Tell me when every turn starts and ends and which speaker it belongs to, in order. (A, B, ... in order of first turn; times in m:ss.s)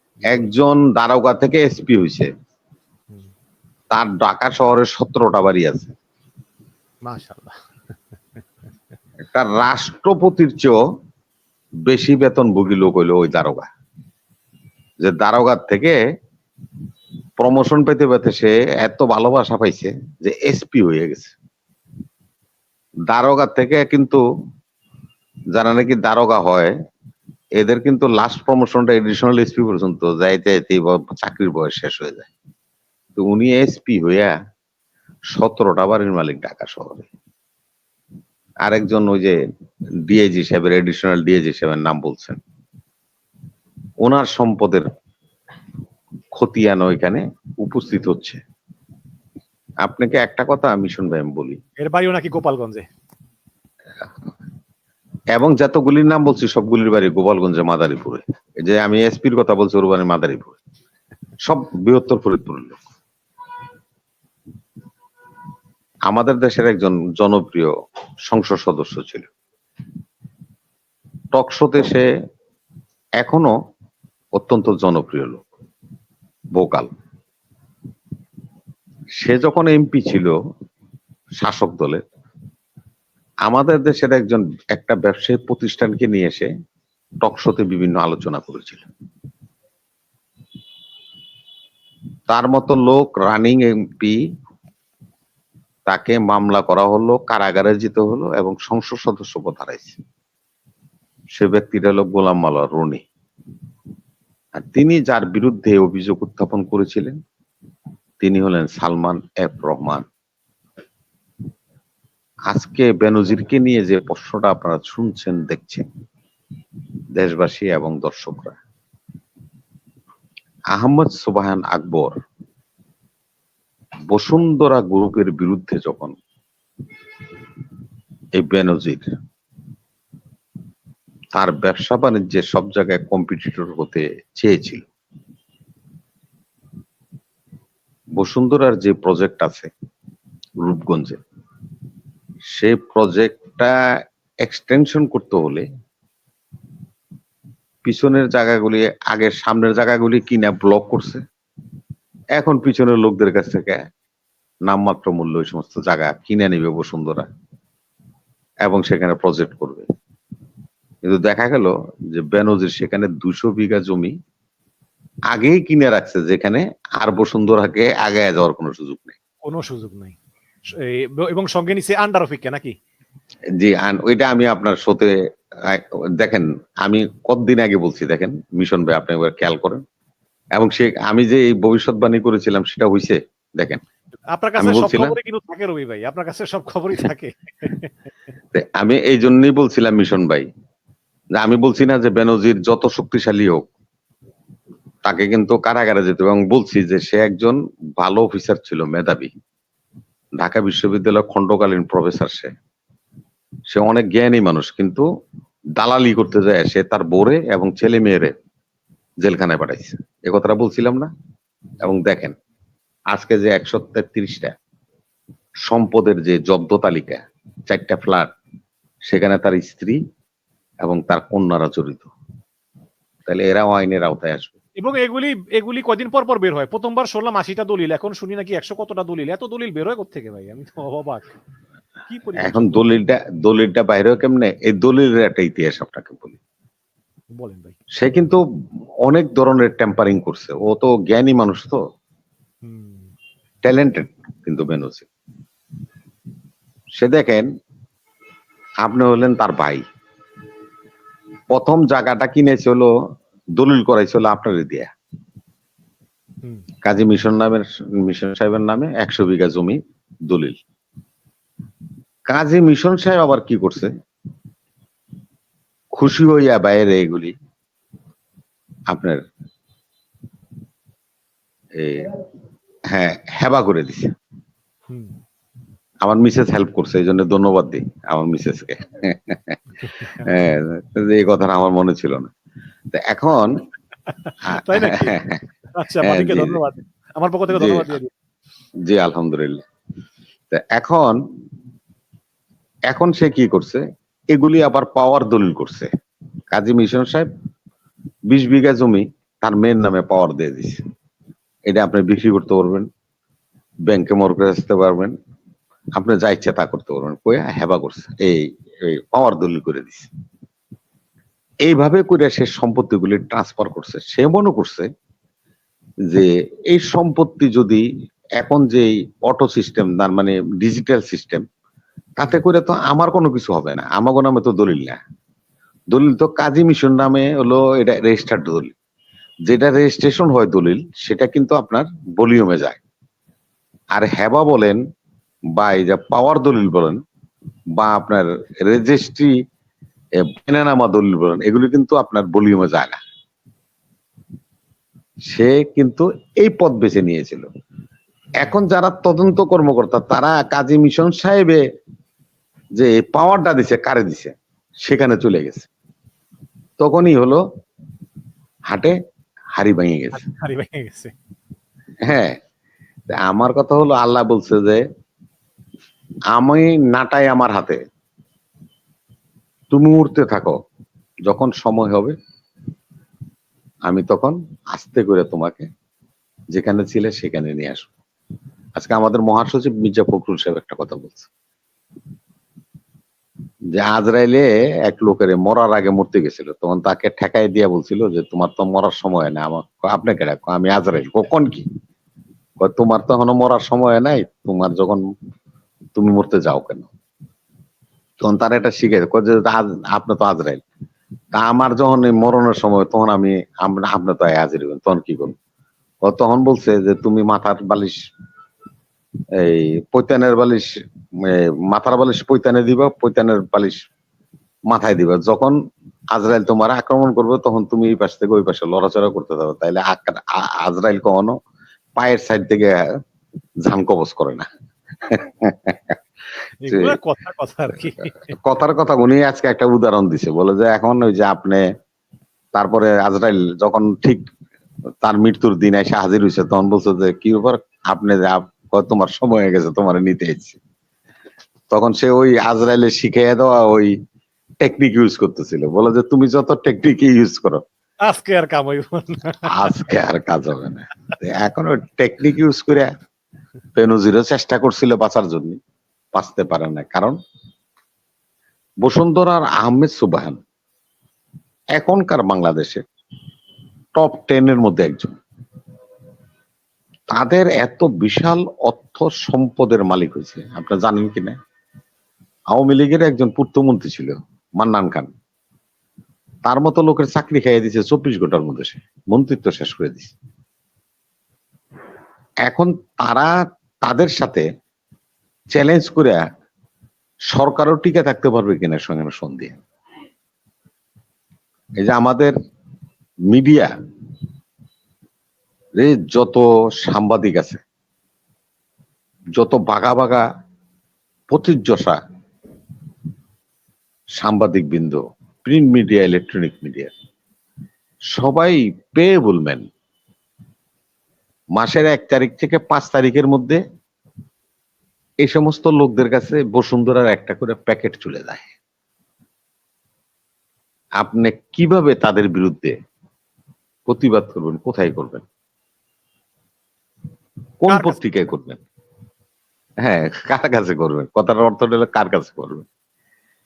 0:00.2-0:00.5 A
0:00.3-0:02.3 B
0:03.9-0:05.9 B
0:07.0-0:07.6 A
0:09.3-0:10.8 B
0:11.8-0:13.7 B
0:15.0-0:16.0 B
0:17.4-0:21.3 B
0:23.1-0:24.2 B
0:25.5-0:26.7 B
0:27.6-0:32.3 B
0:33.2-0:34.3 B
0:35.3-0:37.1 B
0:38.6-0:39.4 B
0:40.1-0:42.4 B
0:44.0-0:44.9 B
0:46.3-0:48.4 B
0:49.8-0:51.6 B
0:51.8-0:52.9 A
0:55.3-1:00.6 B
1:01.4-1:02.8 B
1:06.1-1:07.7 B
1:08.3-1:09.3 B
1:11.3-1:12.0 B
1:13.2-1:13.5 B
1:14.4-1:15.4 B
1:16.5-1:16.9 B
1:19.2-1:20.3 B
1:21.4-1:22.0 B
1:23.4-1:26.5 B
1:27.2-1:28.9 B
1:32.3-1:34.2 B
1:35.9-1:40.0 B
1:41.3-1:43.0 B
1:44.5-1:47.2 B
1:48.2-1:50.0 B
1:52.5-1:55.8 B
1:57.1-1:58.6 B
2:00.7-2:02.2 B
2:04.1-2:06.1 B
2:08.4-2:09.1 B
2:11.3-2:14.8 B
2:18.2-2:19.7 B
2:20.6-2:21.2 B
2:22.5-2:23.7 B
2:24.4-2:25.6 B
2:27.8-2:31.2 B
2:32.4-2:33.8 B
2:34.7-2:37.3 B
2:38.6-2:39.9 B
2:41.0-2:44.1 B
2:45.3-2:49.2 B
2:49.4-2:50.2 A
2:50.7-2:52.8 A
2:53.6-2:59.8 B
3:00.5-3:03.8 B
3:04.3-3:07.9 A
3:04.6-3:05.2 B
3:08.5-3:10.4 B
3:11.3-3:13.7 B
3:15.0-3:19.3 B
3:20.4-3:22.5 B
3:23.7-3:25.0 B
3:25.8-3:28.3 B
3:29.2-3:31.1 B
3:31.8-3:32.3 B
3:33.1-3:34.5 B
3:35.6-3:38.3 B
3:39.1-3:40.0 B
3:40.8-3:42.1 B
3:43.2-3:44.5 B
3:44.8-3:51.3 A
3:52.1-3:53.0 A
3:52.4-3:56.4 B
3:57.4-3:57.8 A
3:58.0-3:58.4 B
3:59.0-4:01.8 B
4:02.6-4:03.1 A
4:03.6-4:05.1 B
4:07.0-4:07.5 B
4:08.8-4:09.8 B
4:11.5-4:12.9 B
4:13.6-4:14.9 B
4:16.8-4:20.6 B
4:22.3-4:23.9 B
4:25.9-4:27.3 B
4:28.9-4:29.2 B
4:31.8-4:32.1 B
4:32.9-4:34.1 B
4:36.0-4:39.6 B
4:39.9-4:40.3 A
4:40.2-4:42.3 B
4:42.9-4:43.6 B
4:44.1-4:45.1 A
4:44.5-4:45.4 B
4:45.8-4:48.1 A
4:46.0-4:46.6 B
4:47.5-4:47.9 B
4:48.8-4:49.6 B
4:50.5-4:51.2 B
4:52.9-4:55.9 B
4:56.5-4:57.3 B
4:58.3-5:00.8 B
5:01.7-5:02.9 B
5:03.9-5:05.1 B
5:06.0-5:10.1 B
5:11.6-5:14.9 B
5:16.1-5:17.8 B
5:18.4-5:21.4 B
5:22.2-5:25.0 B
5:25.9-5:28.7 B
5:29.5-5:32.8 B
5:33.9-5:34.8 B
5:35.6-5:37.0 B
5:37.8-5:39.3 B
5:40.2-5:43.0 B
5:45.3-5:47.4 B
5:48.4-5:51.6 B
5:52.8-5:54.3 B
5:54.8-5:55.7 B
5:56.8-5:57.4 B
5:59.6-6:00.2 B
6:00.1-6:01.1 A
6:02.0-6:02.4 B
6:03.1-6:04.8 B
6:06.3-6:07.8 B
6:09.7-6:10.5 B
6:11.2-6:12.1 B
6:13.9-6:15.7 B
6:16.5-6:17.9 B
6:18.8-6:21.3 B
6:23.7-6:31.6 B
6:32.6-6:35.0 B
6:36.0-6:36.9 B
6:38.2-6:40.6 B
6:41.3-6:45.3 B
6:46.0-6:48.0 B
6:49.4-6:53.8 B
6:54.7-6:55.6 B
6:56.1-7:01.3 B
7:02.0-7:02.8 B
7:03.6-7:04.4 B
7:05.0-7:06.0 B
7:06.6-7:08.3 A
7:06.7-7:07.0 B
7:08.3-7:11.6 B
7:12.5-7:14.2 B
7:15.0-7:20.6 B
7:21.7-7:23.9 B
7:24.6-7:27.6 B
7:28.0-7:29.7 A
7:29.4-7:32.9 B
7:33.8-7:35.6 B
7:36.1-7:37.2 B
7:38.8-7:40.4 B
7:41.7-7:42.8 B
7:43.9-7:45.2 B
7:47.1-7:51.4 B
7:52.5-7:55.1 B
7:56.4-8:00.1 B
8:02.4-8:04.4 B
8:05.5-8:06.2 B
8:07.3-8:09.6 B
8:11.8-8:12.3 B
8:13.3-8:13.7 B
8:15.8-8:17.6 B
8:19.4-8:20.2 B
8:21.3-8:22.0 B
8:24.2-8:26.9 B
8:28.1-8:29.7 B
8:31.5-8:33.6 B
8:35.2-8:38.5 B
8:41.0-8:42.7 B
8:43.9-8:45.2 B
8:47.6-8:48.6 B
8:47.7-8:48.0 A
8:49.8-8:52.6 B